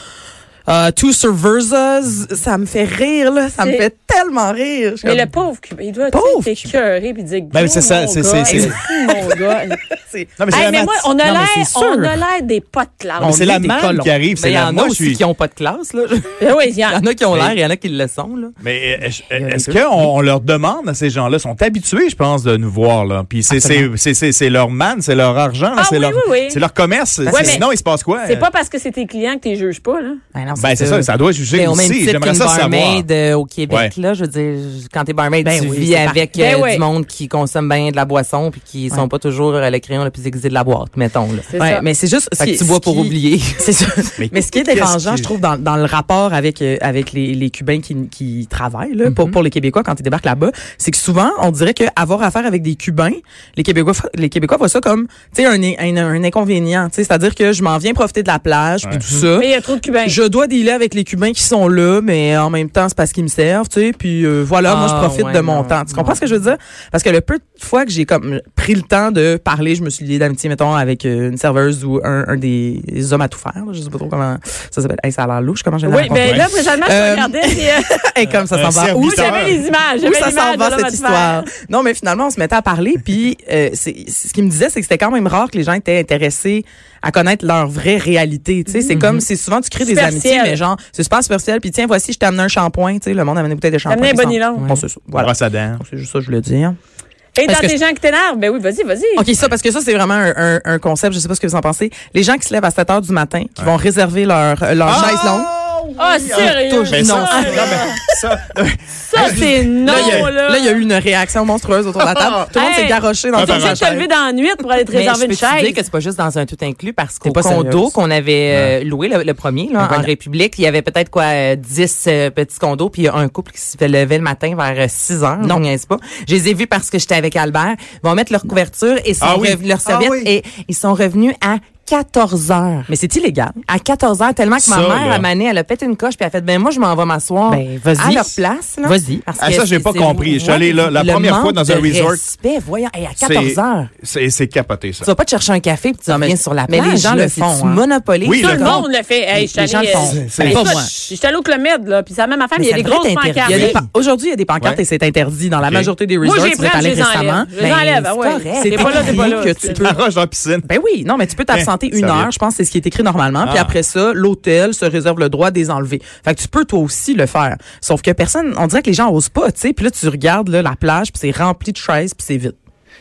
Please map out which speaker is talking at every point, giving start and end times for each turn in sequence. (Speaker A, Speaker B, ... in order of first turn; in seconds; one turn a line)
Speaker A: 0.7-5.3
Speaker B: 3.6-3.9
Speaker B: 5.0-9.8
Speaker A: 6.1-6.8
Speaker C: 7.5-8.7
Speaker D: 8.4-8.8
Speaker A: 9.1-10.6
Speaker C: 10.4-11.1
Speaker B: 10.5-13.4
Speaker A: 11.2-12.2
Speaker A: 13.2-14.7
Speaker C: 13.2-15.2
Speaker D: 14.4-18.5
Speaker B: 16.4-17.0
Speaker C: 17.3-17.6
Speaker C: 18.6-28.5
Speaker A: 19.4-20.1
Speaker A: 23.5-23.9
Speaker B: 25.8-26.6
Speaker A: 27.2-27.6
Speaker B: 27.3-27.7
Speaker B: 28.2-30.2
Speaker A: 30.3-31.1
Speaker C: 30.6-33.0
Speaker D: 31.5-41.5
Speaker C: 33.7-33.9
Speaker A: 35.4-36.3
Speaker B: 36.3-36.9
Speaker B: 41.5-41.9
Speaker A: 41.6-96.8
Speaker D: 42.4-43.8
Speaker C: 44.2-45.3
Speaker D: 49.0-49.4
Speaker D: 59.0-59.3
Speaker B: 59.4-60.2
Speaker D: 64.6-66.2
Speaker B: 75.8-78.0
Speaker C: 76.1-76.5
Speaker C: 78.5-79.6
Speaker B: 78.9-81.5
Speaker B: 88.7-89.0
Speaker D: 88.9-89.2
Speaker B: 89.8-90.6
Speaker B: 93.9-94.7
Speaker C: 95.2-95.8
Speaker B: 97.3-99.3
Speaker A: 97.4-97.8
Speaker A: 99.2-105.5
Speaker C: 104.9-110.3
Speaker B: 106.0-107.9
Speaker D: 106.3-107.8
Speaker A: 107.3-108.3
Speaker B: 109.0-110.8
Speaker A: 109.1-114.1
Speaker C: 112.1-112.4
Speaker B: 112.5-115.8
Speaker C: 113.4-113.8
Speaker D: 114.9-132.9
Speaker A: 117.2-118.0
Speaker C: 118.5-118.7
Speaker A: 119.8-120.1
Speaker A: 125.4-125.7
Speaker C: 129.2-130.3
Speaker A: 132.9-133.6
Speaker D: 133.7-143.9
Speaker C: 134.6-135.3
Speaker A: 137.5-139.2
Speaker C: 139.4-142.2
Speaker C: 143.2-145.1
Speaker D: 145.0-148.8
Speaker A: 146.1-147.9
Speaker C: 148.2-148.6
Speaker B: 148.4-153.8
Speaker A: 148.6-151.1
Speaker C: 150.1-150.7
Speaker D: 152.6-153.9
Speaker C: 153.5-153.8
Speaker A: 153.5-160.0
Speaker C: 155.6-155.9
Speaker B: 156.2-159.8
Speaker D: 158.2-159.6
Speaker C: 159.8-160.7
Speaker A: 160.6-172.6
Speaker C: 161.5-162.3
Speaker C: 163.4-163.8